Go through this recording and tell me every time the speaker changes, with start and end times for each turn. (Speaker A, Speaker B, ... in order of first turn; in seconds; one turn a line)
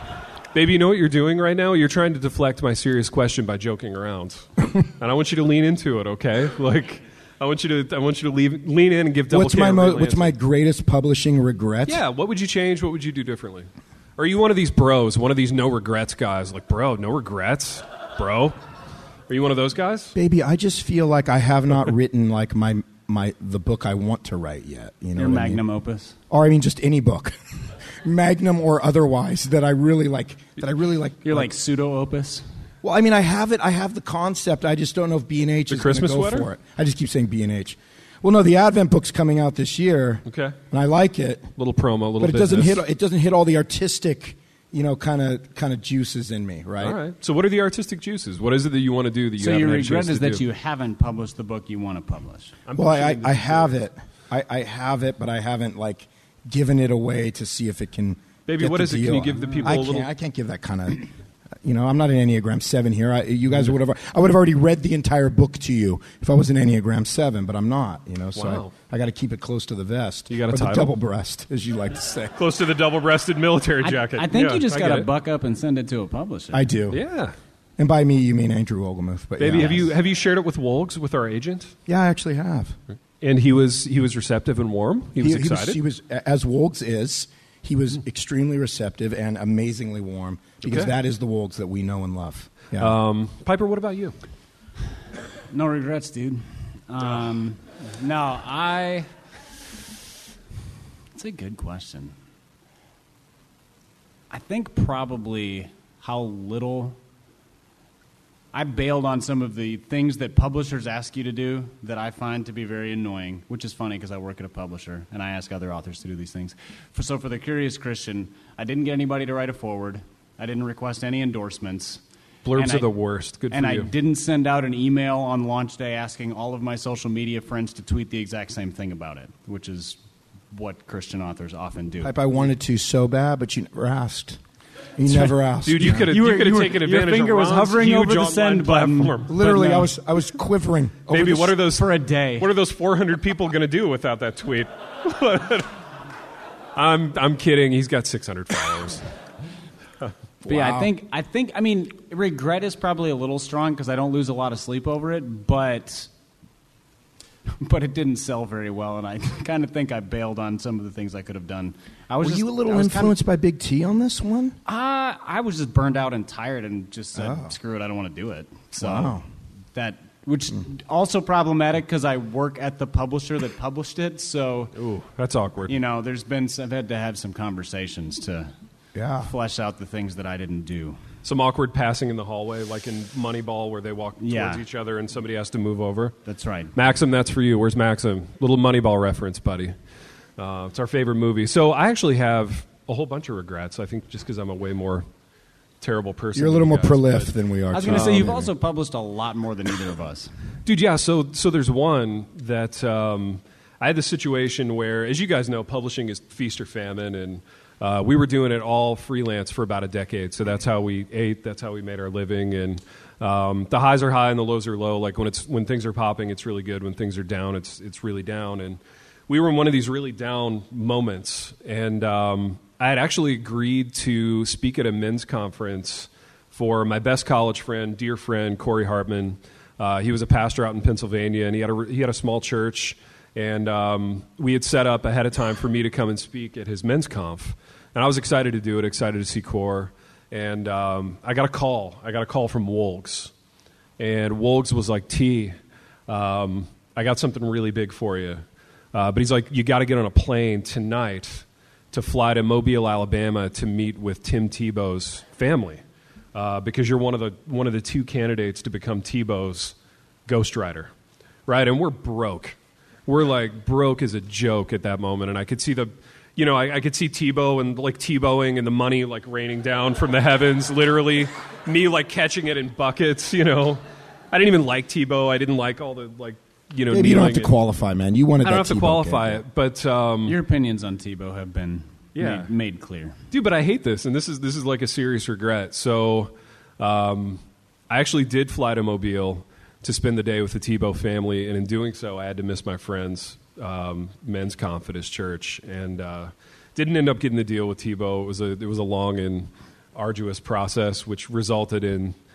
Speaker A: 0.5-10.3
Speaker B: 9.3-12.0
Speaker A: 11.9-18.6
Speaker A: 19.3-20.2
Speaker B: 20.1-25.6
Speaker C: 25.2-26.1
Speaker B: 26.3-27.4
Speaker B: 27.9-31.5
Speaker C: 31.2-32.5
Speaker B: 32.8-41.5
Speaker A: 35.7-36.5
Speaker A: 40.3-40.6
Speaker A: 41.6-42.8
Speaker B: 42.2-47.0
Speaker A: 46.8-50.4
Speaker C: 49.4-52.5
Speaker A: 52.7-53.8
Speaker B: 52.8-61.1
Speaker A: 58.5-60.1
Speaker B: 61.6-72.3
Speaker A: 68.3-68.7
Speaker A: 70.3-70.9
Speaker A: 72.4-75.1
Speaker C: 73.8-76.7
Speaker B: 76.5-77.0
Speaker A: 76.9-77.3
Speaker B: 77.8-79.9
Speaker A: 79.4-81.7
Speaker B: 81.9-82.8
Speaker A: 83.2-85.8
Speaker B: 85.2-92.9
Speaker A: 90.6-90.9
Speaker A: 92.8-94.2
Speaker C: 95.5-99.1
Speaker C: 101.1-102.1
Speaker C: 104.3-107.0
Speaker C: 108.5-122.0
Speaker A: 122.5-123.9
Speaker C: 122.5-122.9
Speaker C: 123.5-130.0
Speaker C: 130.5-132.2
Speaker B: 132.0-134.4
Speaker B: 135.0-136.1
Speaker A: 135.6-139.3
Speaker C: 135.9-139.9
Speaker B: 139.3-141.6
Speaker A: 141.1-145.7
Speaker C: 141.7-142.5
Speaker A: 146.8-149.0
Speaker B: 150.4-150.9
Speaker C: 150.5-156.1
Speaker C: 157.6-163.2
Speaker B: 162.2-164.6
Speaker C: 164.7-169.2
Speaker B: 167.2-167.5
Speaker B: 168.8-169.2
Speaker C: 169.8-174.7
Speaker A: 174.8-175.7
Speaker C: 175.7-178.5
Speaker B: 178.9-179.3
Speaker C: 179.2-181.0
Speaker A: 181.2-186.2
Speaker C: 184.2-184.6
Speaker C: 186.3-186.7
Speaker A: 186.8-189.8
Speaker A: 190.4-195.1
Speaker A: 195.8-197.3
Speaker B: 196.3-198.5
Speaker C: 197.7-200.3
Speaker A: 197.9-198.2
Speaker A: 200.7-243.3
Speaker A: 244.0-245.6
Speaker A: 246.1-248.4
Speaker A: 248.9-255.8
Speaker A: 256.3-259.7
Speaker A: 260.3-260.9
Speaker A: 261.5-277.5
Speaker B: 276.9-279.4
Speaker A: 278.4-280.4
Speaker C: 280.2-283.2
Speaker A: 282.2-282.5
Speaker A: 283.3-302.1